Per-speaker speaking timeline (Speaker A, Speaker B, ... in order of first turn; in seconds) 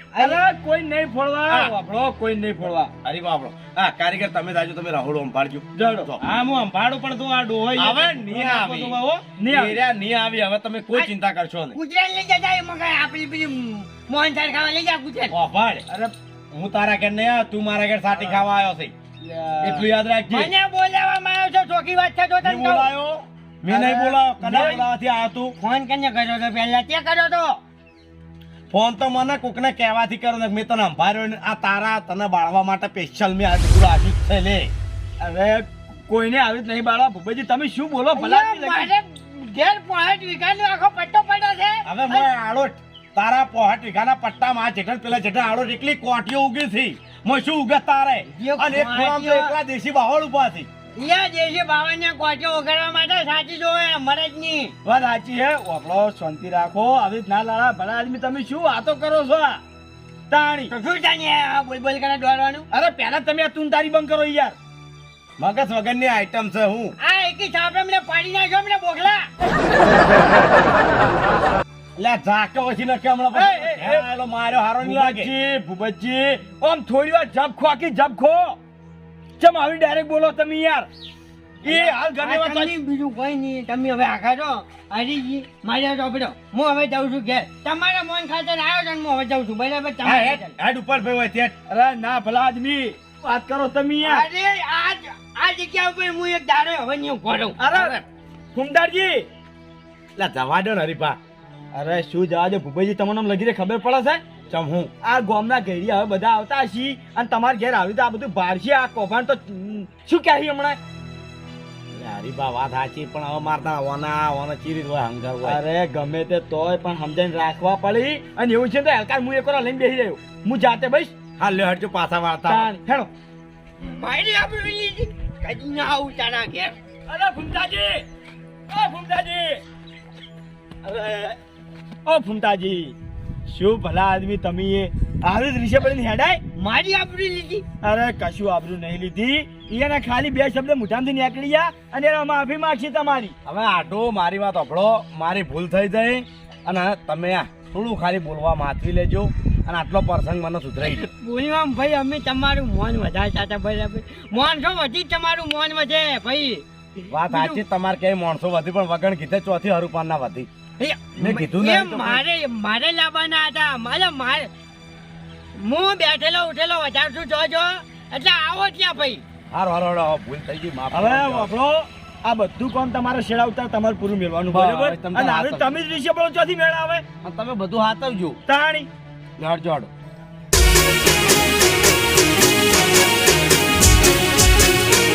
Speaker A: 0.1-0.4, 11.7-15.4, 20.3-22.9, 25.6-27.6, 38.1-42.3, 48.3-49.5, 51.0-54.8, 60.7-62.7, 67.0-69.3, 81.7-90.5, 94.0-97.6, 123.8-126.8, 136.6-137.7, 150.8-157.6, 160.8-164.5, 165.6-169.2
Speaker B: 0.2-2.9, 5.8-6.1, 9.4-9.8, 19.2-19.9, 23.7-24.9, 35.2-38.9, 54.9-59.6, 60.3-60.7, 62.7-64.6, 73.3-74.1, 74.8-78.6, 79.4-80.9, 81.6-82.7, 91.7-94.3, 97.6-98.0, 98.5-99.3, 101.7-104.2, 105.0-110.8, 115.4-121.1, 122.5-123.1, 127.1-128.1, 128.7-129.6, 130.8-131.4, 132.1-133.0, 133.5-136.4, 137.8-143.3, 170.9-177.0, 178.5-178.9
Speaker C: 1.5-1.8, 3.0-6.2, 7.8-11.8, 15.3-15.8, 16.5-18.9, 19.6-20.5, 22.4-25.5, 28.7-34.7, 41.9-50.7, 65.4-66.9, 72.0-75.3, 90.0-91.6, 97.7-98.0, 100.2-101.2, 104.5-104.9, 111.9-115.6, 121.4-122.7, 143.4-151.1, 157.1-160.5, 161.2-162.2, 169.5-171.5, 174.5-175.7, 177.2-178.4, 179.4-179.9
Speaker D: 6.2-9.2